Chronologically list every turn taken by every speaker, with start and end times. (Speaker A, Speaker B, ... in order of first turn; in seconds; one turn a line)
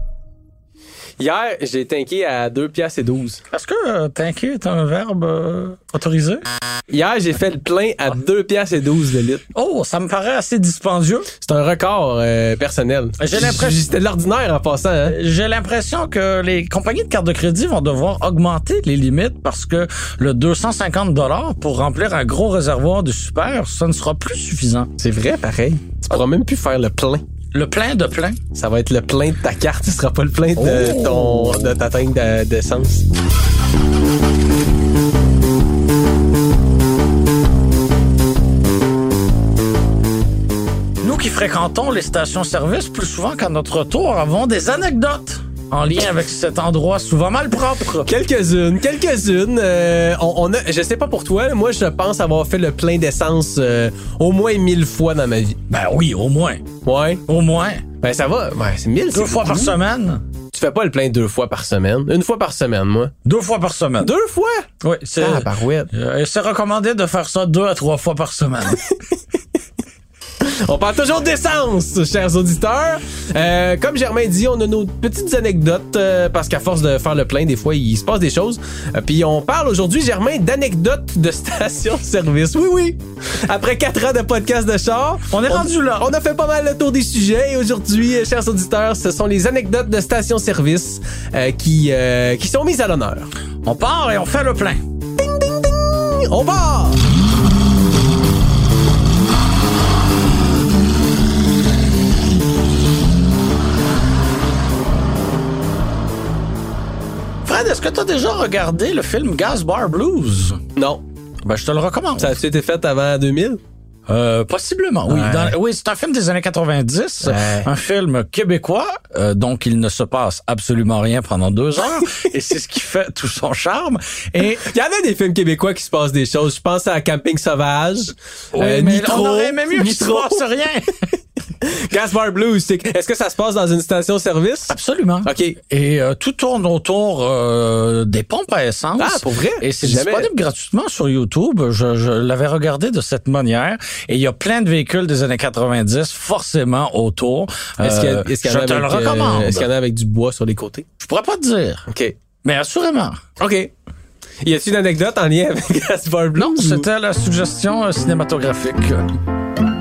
Speaker A: 1.2-3.4
Speaker B: 3.5-6.4
Speaker A: 6.9-9.4
Speaker B: 9.5-11.3
Speaker A: 11.4-15.2
Speaker B: 13.2-13.8
Speaker B: 15.1-24.9
Speaker A: 25.0-27.2
Speaker B: 27.5-28.4
Speaker A: 28.5-33.0
Speaker B: 30.6-31.4
Speaker B: 41.0-48.1
Speaker A: 48.0-55.6
Speaker B: 55.7-56.6
Speaker A: 56.8-57.2
Speaker B: 57.3-57.9
Speaker A: 58.0-59.8
Speaker B: 59.1-60.2
Speaker A: 60.5-63.1
Speaker B: 63.2-64.1
Speaker A: 64.0-64.7
Speaker B: 64.8-68.9
Speaker A: 65.2-65.9
Speaker A: 70.4-93.3
Speaker B: 85.3-86.1
Speaker B: 93.6-94.8
Speaker A: 95.2-97.0
Speaker B: 107.4-110.6
Speaker A: 110.8-111.0
Speaker B: 111.4-112.4
Speaker A: 112.2-113.6
Speaker B: 114.1-124.7
Speaker A: 115.1-115.5
Speaker A: 117.2-117.7
Speaker A: 124.6-130.4
Speaker B: 128.5-131.1
Speaker A: 131.6-135.6
Speaker B: 134.7-149.7
Speaker A: 139.0-140.3
Speaker A: 147.8-150.9
Speaker B: 151.0-151.8
Speaker A: 151.9-152.2
Speaker B: 152.4-153.2
Speaker A: 153.4-153.7
Speaker A: 154.4-156.9
Speaker B: 156.4-159.1